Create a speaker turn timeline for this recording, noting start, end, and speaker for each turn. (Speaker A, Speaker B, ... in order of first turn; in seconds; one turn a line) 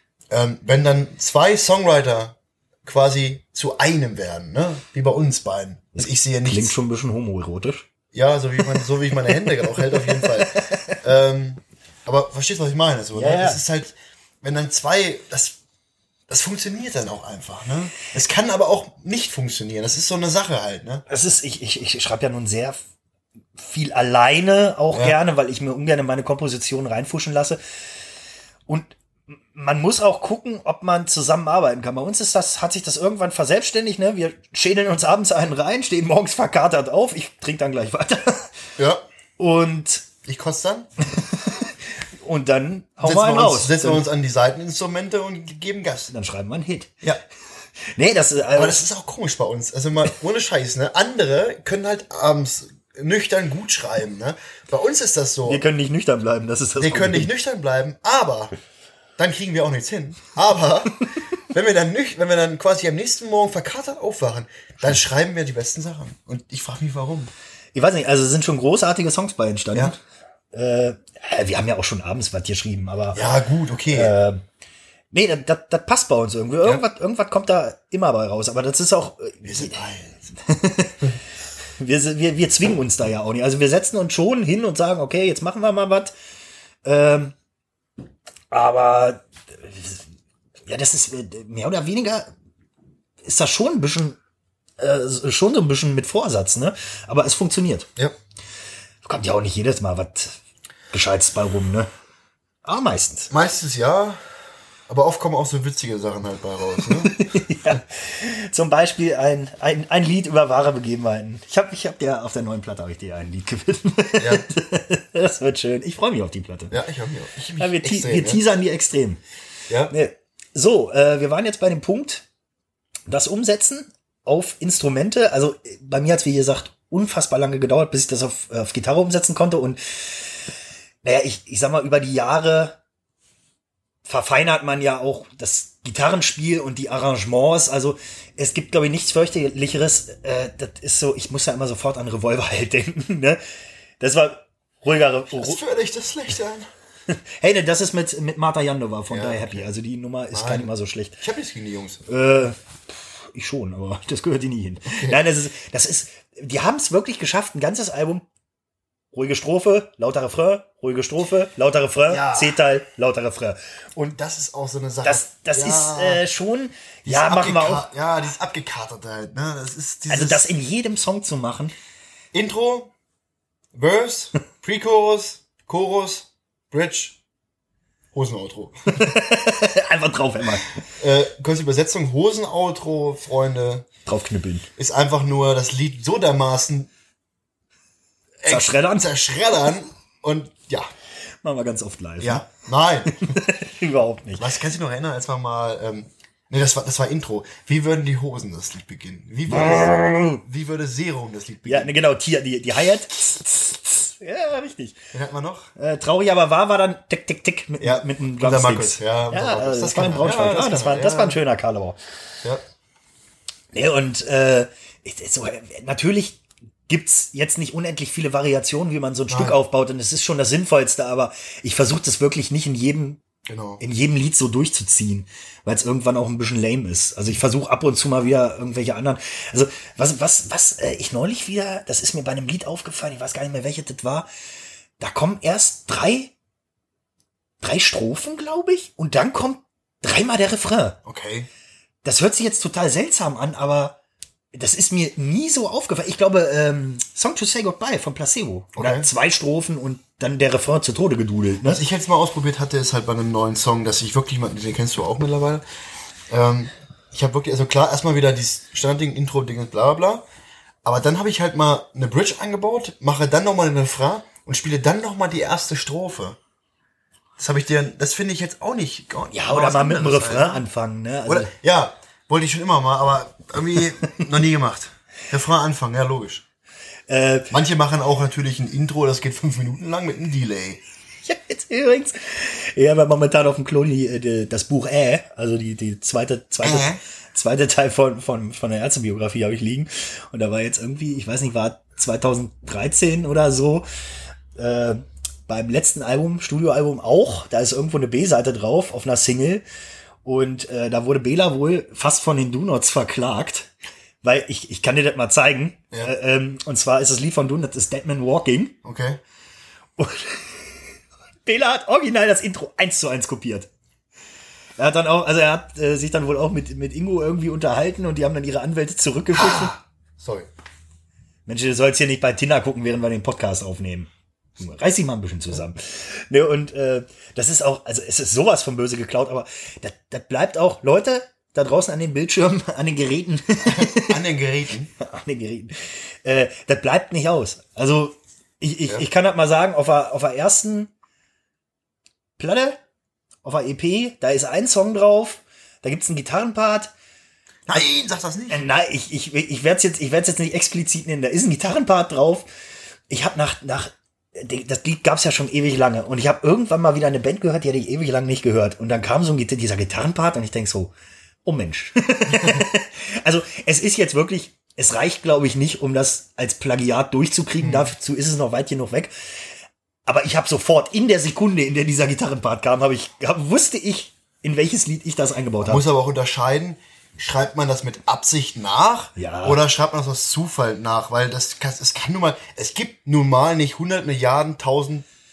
Speaker A: 0.3-6.7
Speaker B: 6.4-7.8
Speaker A: 8.1-15.6
Speaker B: 9.3-11.0
Speaker B: 13.1-13.6
Speaker A: 16.3-21.0
Speaker B: 21.1-22.8
Speaker B: 23.6-27.6
Speaker B: 28.7-28.9
Speaker B: 29.5-38.6
Speaker B: 39.4-40.1
Speaker A: 40.2-40.9
Speaker B: 41.1-44.0
Speaker A: 43.0-46.1
Speaker B: 46.1-46.9
Speaker B: 47.9-48.8
Speaker A: 48.5-55.6
Speaker B: 55.5-57.3
Speaker A: 56.8-58.5
Speaker A: 59.2-67.3
Speaker B: 67.7-70.0
Speaker B: 70.5-73.2
Speaker A: 73.1-74.1
Speaker B: 73.9-74.4
Speaker B: 75.1-79.8
Speaker A: 79.4-80.1
Speaker B: 80.4-81.2
Speaker B: 81.8-86.1
Speaker B: 86.8-87.3
Speaker B: 88.5-90.0
Speaker B: 90.7-92.3
Speaker B: 93.2-94.2
Speaker B: 94.8-97.9
Speaker B: 99.0-100.4
Speaker B: 100.9-101.9
Speaker B: 102.6-103.3
Speaker A: 103.3-104.2
Speaker A: 104.9-107.2
Speaker B: 106.8-116.7
Speaker A: 114.2-114.5
Speaker A: 116.7-118.4
Speaker B: 117.6-119.2
Speaker B: 119.9-122.2
Speaker B: 123.1-130.4
Speaker B: 131.0-132.8
Speaker B: 134.0-143.4
Speaker B: 144.0-145.6
Speaker A: 145.3-146.7
Speaker B: 147.1-151.2
Speaker A: 149.1-149.7
Speaker A: 150.3-152.0
Speaker B: 152.1-158.2
Speaker B: 159.1-164.2
Speaker A: 162.1-162.6
Speaker A: 164.1-166.2
Speaker B: 165.0-167.9
Speaker A: 167.1-170.5
Speaker B: 170.1-171.7
Speaker A: 172.3-172.9
Speaker A: 173.7-177.2
Speaker A: 178.1-179.2
Speaker B: 178.9-180.8
Speaker A: 181.0-183.9
Speaker B: 184.1-184.7
Speaker A: 184.8-186.9
Speaker A: 188.4-190.9
Speaker B: 188.5-189.1
Speaker B: 191.4-192.5
Speaker A: 192.2-193.4
Speaker B: 193.1-194.5
Speaker A: 194.4-201.9
Speaker B: 199.5-200.4
Speaker B: 201.7-205.0
Speaker A: 205.1-205.7
Speaker B: 205.8-212.0
Speaker A: 207.8-211.4
Speaker B: 213.7-223.2
Speaker A: 219.3-219.6
Speaker A: 223.5-223.8
Speaker B: 223.8-234.3
Speaker B: 235.0-236.3
Speaker B: 237.6-241.0
Speaker A: 241.0-241.5
Speaker B: 242.0-244.0
Speaker B: 244.5-251.8
Speaker A: 248.7-249.1
Speaker A: 251.7-255.6
Speaker A: 256.3-260.2
Speaker A: 260.8-266.4
Speaker A: 267.4-270.6
Speaker B: 269.3-271.5
Speaker A: 271.2-276.4
Speaker B: 277.1-277.5
Speaker A: 277.5-280.8
Speaker B: 281.2-293.8
Speaker A: 286.6-287.0
Speaker B: 294.6-299.6
Speaker B: 300.2-303.7
Speaker B: 304.2-308.8
Speaker A: 308.8-309.2
Speaker B: 310.0-310.8
Speaker B: 311.4-313.7
Speaker B: 314.8-319.7
Speaker A: 319.4-320.5
Speaker B: 321.5-334.2
Speaker A: 333.6-334.9
Speaker B: 335.0-340.9
Speaker B: 342.4-342.8
Speaker B: 343.4-346.9
Speaker A: 347.7-348.6
Speaker B: 348.5-352.5
Speaker B: 353.1-360.9
Speaker B: 361.4-369.1
Speaker A: 362.4-362.7
Speaker A: 367.6-367.9
Speaker B: 370.1-375.8
Speaker A: 375.6-385.1
Speaker B: 379.2-379.6